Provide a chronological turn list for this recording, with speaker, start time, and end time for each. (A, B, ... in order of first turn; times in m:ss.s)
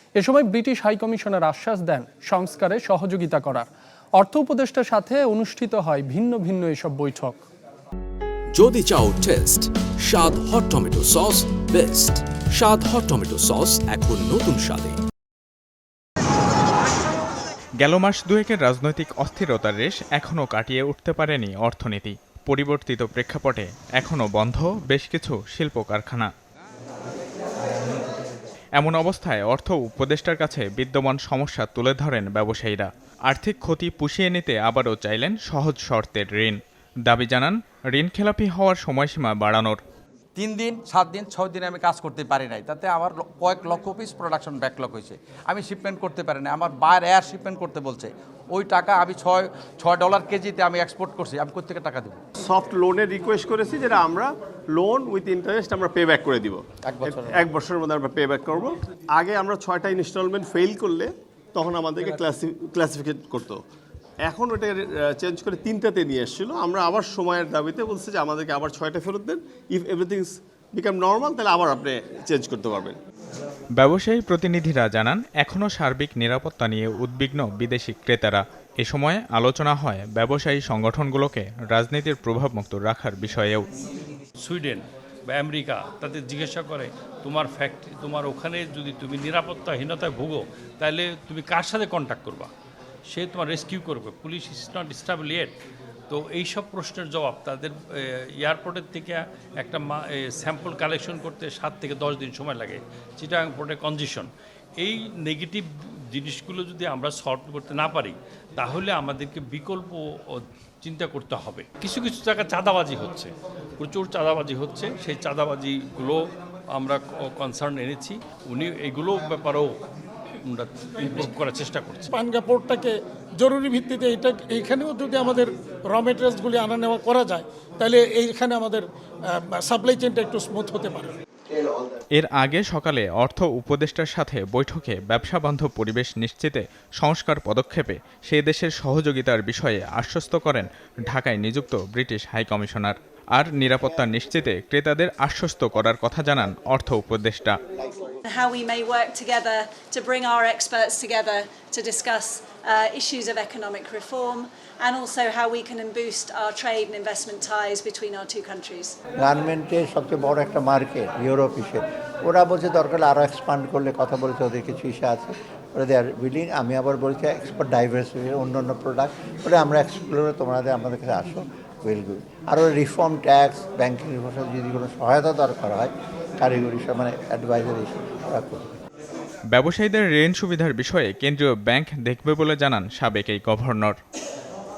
0:00.2-0:07.4 A
0:08.5-0:15.0 B
0:17.8-0:26.3 C
0:28.8-0:39.8 C
0:40.4-0:52.2 D
0:52.4-1:03.6 E
0:56.8-0:57.5 D
1:04.2-1:13.0 E
1:13.8-1:23.6 C
1:24.4-1:32.5 F
1:33.1-1:35.5 F
1:36.1-1:44.3 F
1:44.8-1:56.2 F
1:56.7-1:59.7 F
2:00.4-2:02.1 F
2:02.1-2:11.1 G
2:12.1-2:27.6 C
2:28.3-2:39.0 H
2:39.2-2:58.7 I
2:59.5-3:04.0 C